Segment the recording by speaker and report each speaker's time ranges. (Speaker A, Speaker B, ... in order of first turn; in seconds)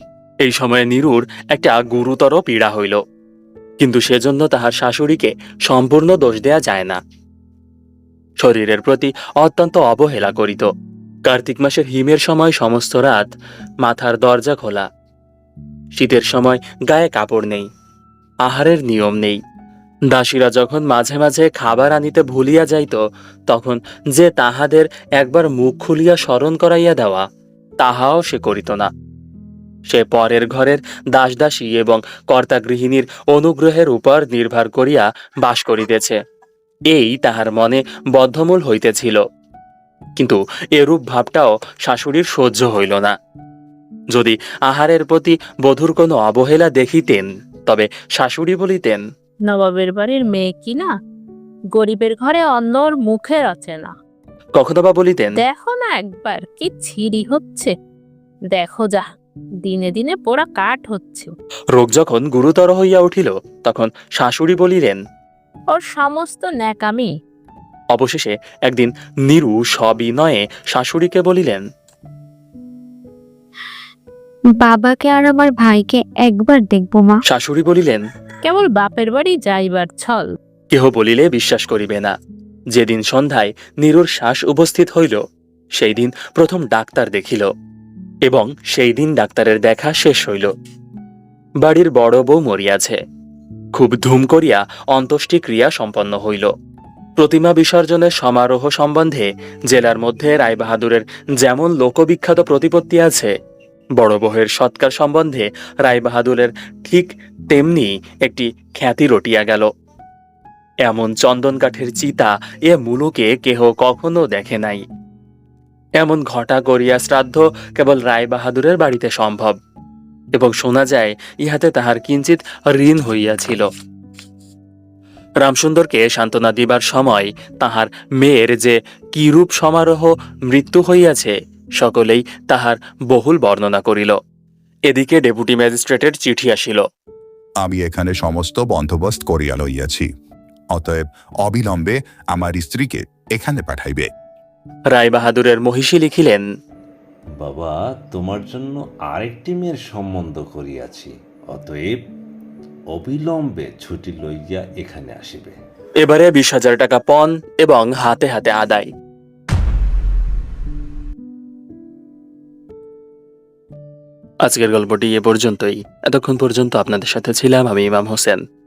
Speaker A: 0.4-3.0, 3.8-7.0, 8.4-10.7, 11.2-14.9, 15.9-17.7, 18.4-19.4, 20.1-27.2, 27.8-28.9, 29.9-36.2, 36.9-39.2, 40.2-43.1, 44.1-49.0, 54.5-55.4, 61.7-65.0, 67.9-71.6, 77.3-78.0, 80.7-82.1, 82.7-85.2, 85.8-87.5, 88.3-90.5, 91.6-93.0, 93.7-96.5, 97.2-103.3, 104.0-109.7, 110.8-114.8, 116.0-119.5, 120.3-123.7, 125.4-134.2, 134.9-136.8, 144.9-146.4, 156.0-158.9, 164.4-168.4
Speaker B: 49.5-50.9, 51.7-53.9, 55.4-57.7, 58.5-59.0, 59.6-61.3, 65.7-67.1, 78.4-80.3
Speaker C: 74.6-77.2
Speaker D: 137.6-140.1, 140.7-144.1
Speaker E: 147.4-152.0, 152.9-155.6